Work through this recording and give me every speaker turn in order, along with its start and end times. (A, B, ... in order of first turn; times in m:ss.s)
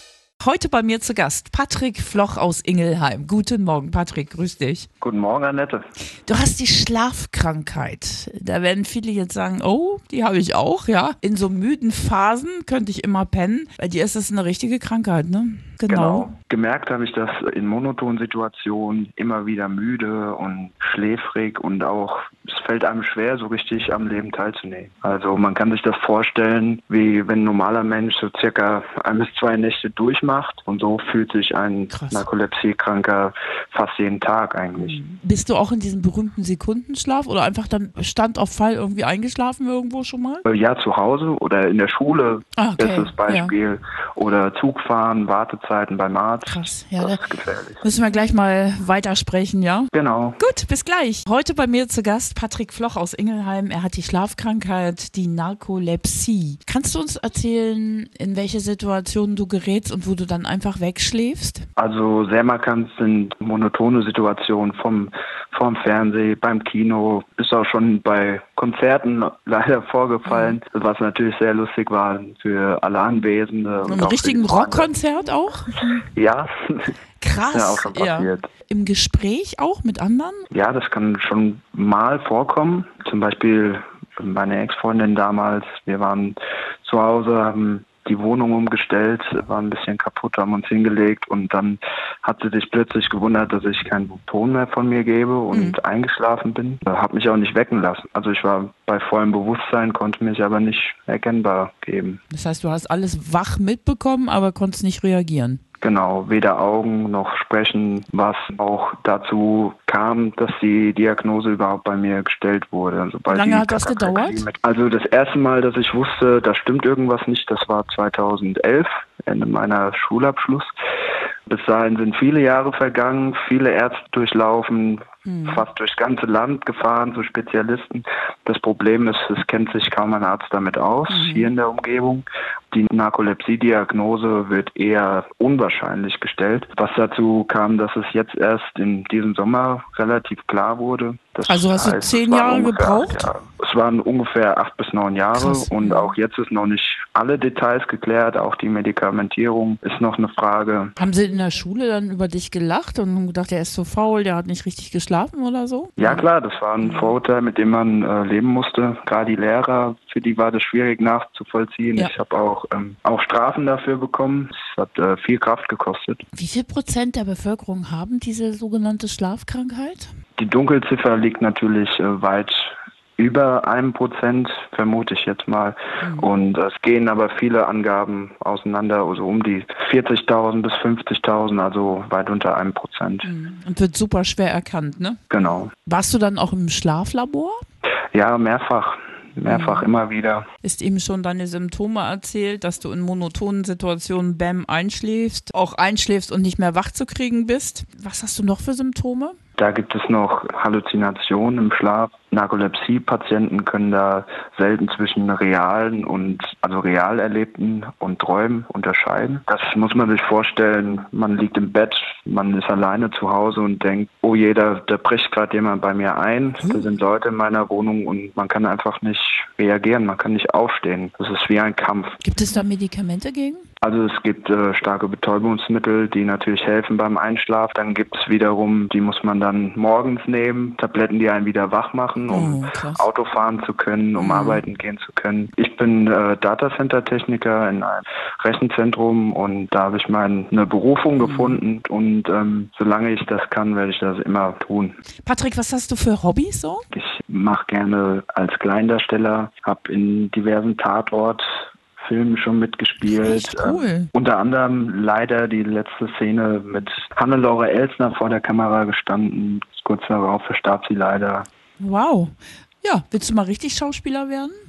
0:00.4-0:04.9 A
0:05.0-0:05.8 B
0:06.3-0:16.3 A
0:15.9-0:35.0 B
0:31.9-0:32.3 A
0:34.8-0:40.4 A
0:40.5-0:47.9 B
0:42.6-0:43.5 A
0:46.5-0:47.2 A
0:47.8-1:01.7 A
0:49.9-0:50.4 B
1:01.8-1:14.9 B
1:10.2-1:10.6 A
1:13.8-1:16.1 A
1:16.1-1:16.9 B
1:17.2-1:20.5 A
1:17.5-1:18.5 B
1:20.5-1:42.2 B
1:35.5-1:35.8 A
1:42.3-1:45.6 A
1:45.8-2:00.7 B
1:53.3-1:54.4 A
2:01.5-2:30.9 B
2:05.3-2:05.6 A
2:11.1-2:11.5 A
2:21.5-2:23.3 A
2:25.3-2:26.1 A
2:31.0-2:36.3 A
2:36.0-2:46.2 B
2:36.8-2:37.2 A
2:46.3-2:50.1 A
2:50.4-3:03.3 B
2:56.0-2:56.3 A
3:03.2-3:05.2 A
3:05.3-3:05.7 B
3:05.8-3:07.6 A
3:08.1-3:10.5 B
3:09.5-3:09.9 A
3:10.6-3:19.4 A
3:19.6-3:42.2 B
3:36.6-3:36.9 A
3:42.2-3:43.6 A
3:43.8-4:05.0 B
3:52.3-3:53.1 A
3:54.2-3:54.6 A
4:01.2-4:01.6 A
4:05.2-4:06.9 A
4:06.9-4:21.5 B
4:13.1-4:14.1 A
4:21.8-4:24.6 A